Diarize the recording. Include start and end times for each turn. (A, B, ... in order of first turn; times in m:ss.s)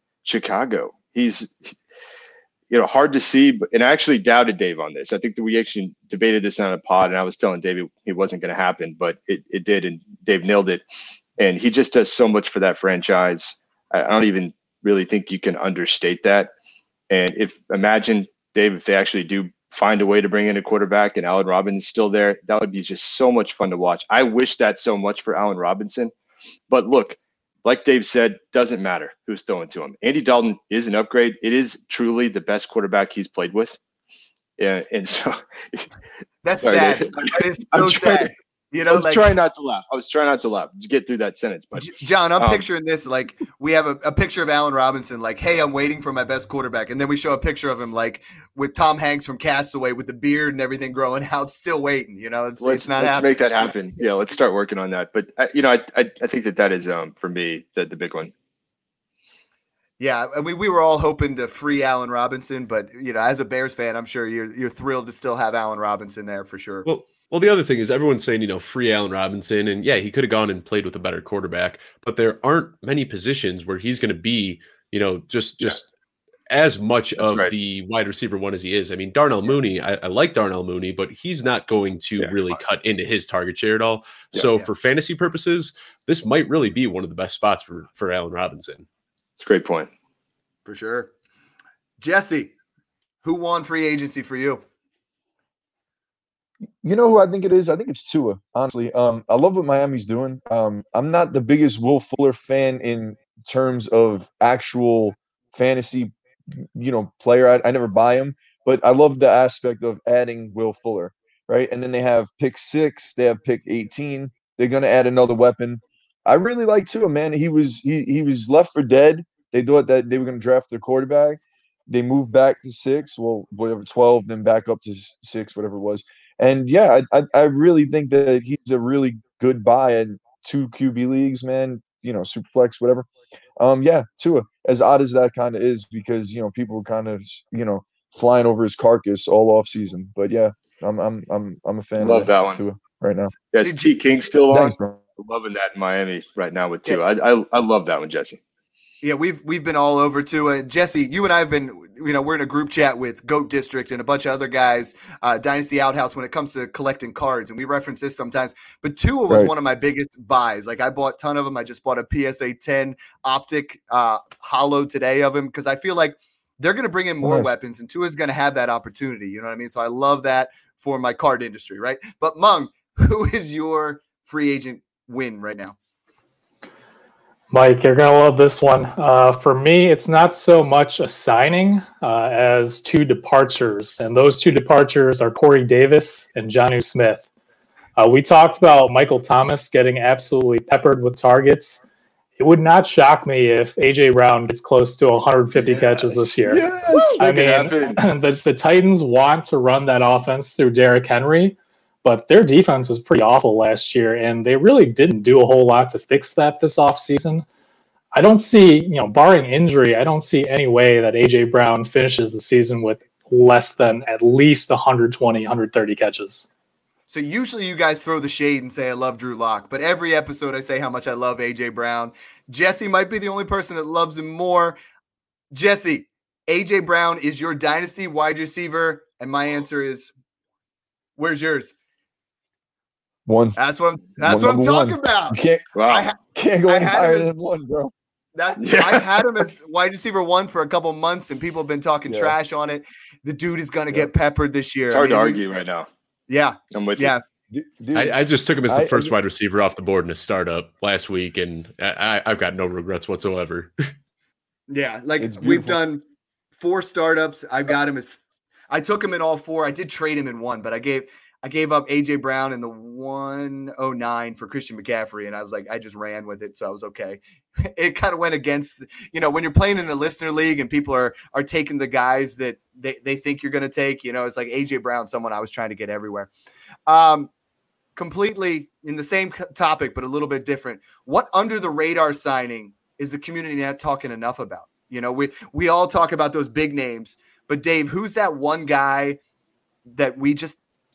0:00.2-0:01.7 A
0:02.7-0:10.8 A
0:11.4-0:16.5 A
0:17.1-0:26.1 A
0:26.7-0:33.8 A
0:34.6-0:35.9 A
0:36.4-0:39.3 B
0:36.6-0:38.3 A
0:38.9-0:42.6 A
0:41.8-0:53.3 B
0:52.6-0:58.3 A
1:00.0-1:06.8 B
1:06.8-1:15.9 C
1:16.5-1:28.8 C
1:17.2-1:17.5 A
1:29.4-1:29.9 A
1:30.6-1:31.1 B
1:32.0-1:32.5 B
1:33.2-1:34.6 B
1:36.8-2:13.1 D
2:13.6-2:23.3 D
2:22.0-2:22.6 A
2:23.5-2:28.4 A
2:23.6-2:23.9 B
2:24.5-2:25.0 D
2:29.0-2:55.8 B
2:47.2-2:47.5 D
2:57.5-3:07.3 E
3:08.0-3:11.8 E
3:12.4-3:27.4 E
3:15.5-3:18.0 A
3:28.1-3:36.5 E
3:37.1-3:44.8 B
3:45.5-3:50.1 B
3:51.2-3:51.7 B
3:53.2-3:53.6 D
3:53.6-3:57.3 B
3:54.2-3:55.6 D
3:55.7-3:56.1 A
3:56.2-3:57.9 D
3:58.4-4:05.4 B
3:58.6-3:59.2 A
4:02.1-4:02.3 D
4:04.9-4:05.9 A
4:06.3-4:07.2 B
4:06.7-4:07.1 A
4:07.5-4:09.1 D
4:07.9-4:13.9 C
4:14.7-4:16.0 B
4:15.2-4:15.8 D
4:16.5-4:36.3 B
4:36.9-4:37.3 B
4:38.0-4:49.2 B
4:49.9-4:50.6 B